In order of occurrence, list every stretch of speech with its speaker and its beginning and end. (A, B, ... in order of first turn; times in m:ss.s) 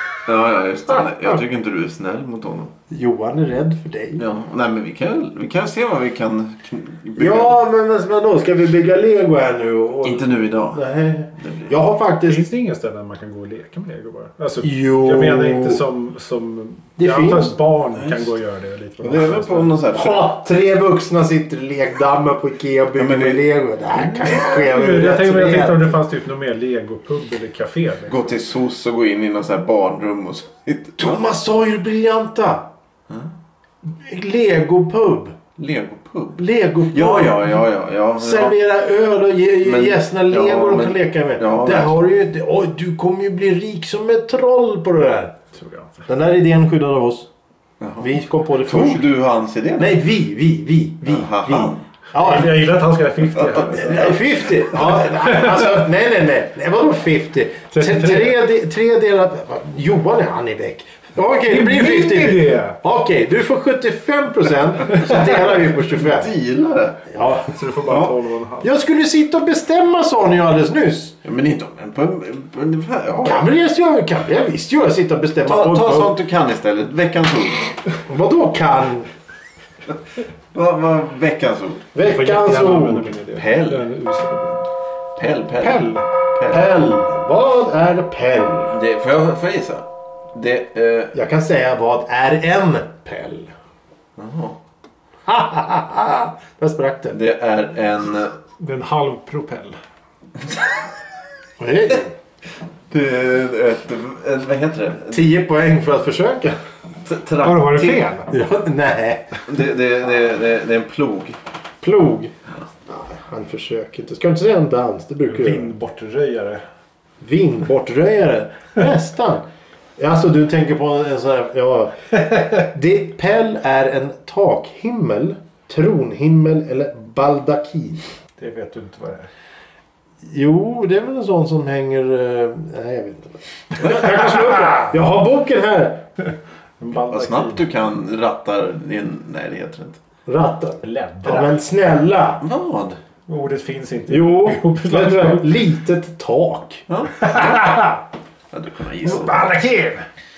0:00.2-0:02.7 A
0:02.9-0:04.2 B
0:04.2-0:07.6 A
0:07.2-0:12.4 B
0:10.0-0:10.8 A
0:11.3-0:11.7 A
0:12.2-0:19.7 C
0:14.6-0:15.8 B
0:17.0-0:17.6 B
0:18.0-0:18.3 A
0:19.0-0:20.3 A
0:19.9-0:26.0 B
0:23.0-0:23.4 A
0:23.9-0:28.3 C
0:28.1-0:31.2 A
0:31.0-0:32.7 B
0:33.8-0:35.4 B
0:35.6-0:36.4 A
0:36.4-0:37.6 B
0:36.9-0:38.5 A
0:38.2-0:45.4 B
0:39.6-0:42.0 A
0:45.5-0:45.9 C
0:46.1-0:47.3 B
0:47.8-0:48.1 A
0:48.0-0:49.1 B
0:48.6-0:50.0 A
0:49.8-0:52.6 B
0:51.0-0:51.8 A
0:52.1-0:54.2 C
0:53.3-0:54.2 A
0:53.7-1:06.3 B
0:55.0-0:55.8 C
0:57.7-0:58.3 C
1:01.5-1:02.8 C
1:04.9-1:07.0 A
1:07.1-1:07.6 B
1:07.4-1:08.7 C
1:07.9-1:08.1 A
1:08.6-1:11.2 B
1:11.2-1:13.5 A
1:13.2-1:16.1 B
1:15.4-1:17.8 A
1:18.0-1:19.1 B
1:20.5-1:21.9 A
1:21.9-1:23.1 B
1:22.0-1:24.7 C
1:23.3-1:23.8 A
1:25.2-1:26.6 A
1:25.6-1:26.0 C
1:26.5-1:28.8 B
1:28.7-1:31.1 A
1:31.1-1:33.5 B
1:34.2-1:34.6 A
1:35.3-1:37.2 B
1:37.1-1:38.4 A
1:38.6-1:39.8 C
1:41.6-1:42.1 B
1:42.9-1:45.3 A
1:45.1-1:46.6 B
1:47.0-1:48.0 A
1:47.4-1:48.3 C
1:48.3-1:49.4 B
1:49.4-1:51.4 A
1:51.8-1:55.7 B
1:55.3-1:56.6 C
1:57.2-1:59.4 B
2:00.0-2:08.0 B
2:08.4-2:09.3 C
2:10.2-2:16.0 B
2:16.8-2:17.6 C
2:17.1-2:20.0 A
2:20.3-2:22.4 B
2:20.8-2:21.5 C
2:22.4-2:23.0 A
2:23.3-2:25.6 C
2:24.1-2:26.8 B
2:26.9-2:27.5 A
2:27.2-2:28.0 C
2:28.5-2:29.5 A
2:29.0-2:30.0 C